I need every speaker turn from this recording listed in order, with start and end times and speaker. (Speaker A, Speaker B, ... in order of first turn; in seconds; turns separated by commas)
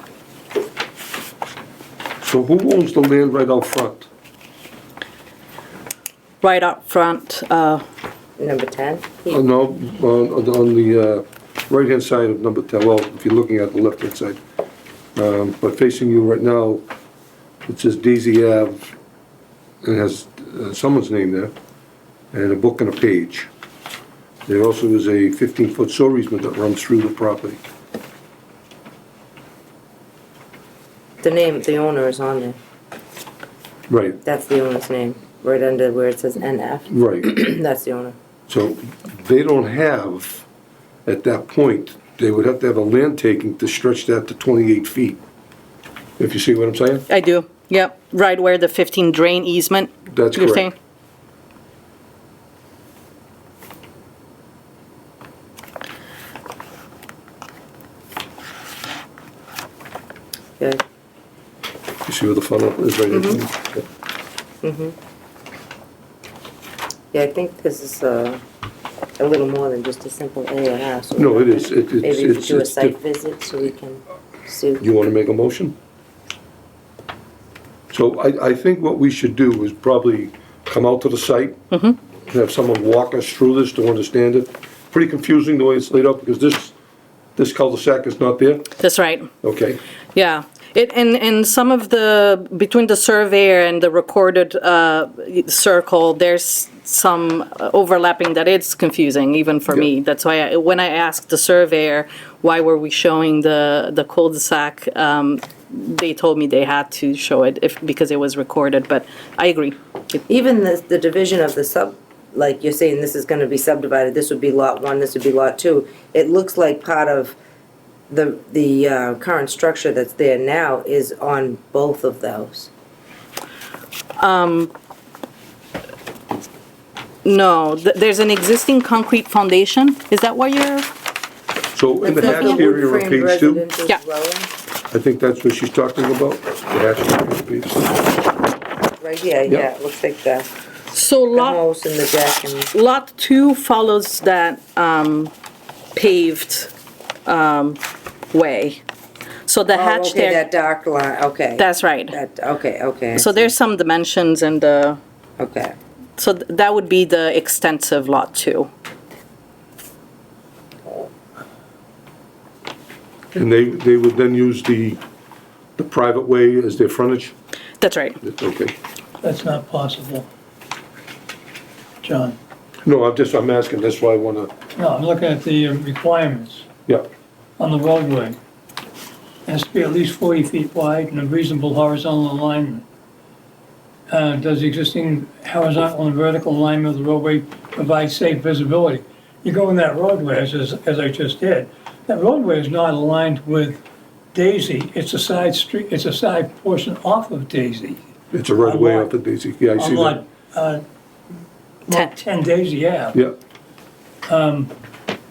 Speaker A: 2.2-4.1, Speaker B: 6.4-7.8, Speaker C: 8.4-9.4, Speaker A: 9.3-14.4, Speaker A: 15.2-16.8, Speaker A: 17.7-18.9, Speaker A: 19.8-21.5, Speaker A: 22.3-23.5, Speaker A: 24.5-27.6, Speaker C: 31.2-32.6, Speaker A: 33.9-34.2, Speaker C: 34.2-38.1, Speaker A: 36.9-37.4, Speaker A: 38.5-40.5, Speaker A: 41.1-45.2, Speaker A: 46.2-47.1, Speaker B: 47.1-50.7, Speaker A: 50.1-50.7, Speaker A: 62.0-63.9, Speaker C: 64.6-65.0, Speaker C: 67.1-68.4, Speaker C: 69.2-74.8, Speaker A: 71.2-73.0, Speaker A: 74.8-75.8, Speaker A: 77.9-81.6, Speaker B: 81.7-82.0, Speaker A: 82.3-86.7, Speaker A: 87.4-88.7, Speaker B: 88.8-89.3, Speaker A: 89.4-89.8, Speaker B: 90.2-109.8, Speaker C: 110.3-117.4, Speaker C: 118.1-122.7, Speaker B: 124.2-124.7, Speaker B: 127.2-130.9, Speaker A: 131.7-133.6, Speaker C: 132.0-134.5, Speaker B: 132.2-132.6, Speaker A: 134.9-137.9, Speaker C: 139.0-140.5, Speaker B: 140.9-141.6, Speaker C: 141.3-142.7, Speaker B: 142.7-145.3, Speaker B: 145.9-146.7, Speaker B: 147.3-147.8, Speaker B: 148.3-148.8, Speaker B: 149.5-150.4, Speaker C: 149.7-153.5, Speaker B: 151.6-152.2, Speaker B: 153.2-155.0, Speaker C: 155.4-155.8, Speaker B: 156.2-158.7, Speaker A: 163.3-165.0, Speaker A: 165.8-167.3, Speaker B: 167.8-168.2, Speaker A: 168.2-168.7, Speaker D: 169.2-170.3, Speaker D: 172.0-172.4, Speaker A: 172.8-174.5, Speaker D: 174.8-176.7, Speaker D: 177.6-178.4, Speaker D: 179.5-182.8, Speaker D: 184.1-193.8, Speaker D: 194.3-198.0, Speaker A: 198.3-200.2, Speaker D: 198.6-199.1, Speaker D: 199.8-200.8, Speaker D: 201.9-203.2, Speaker D: 204.3-204.7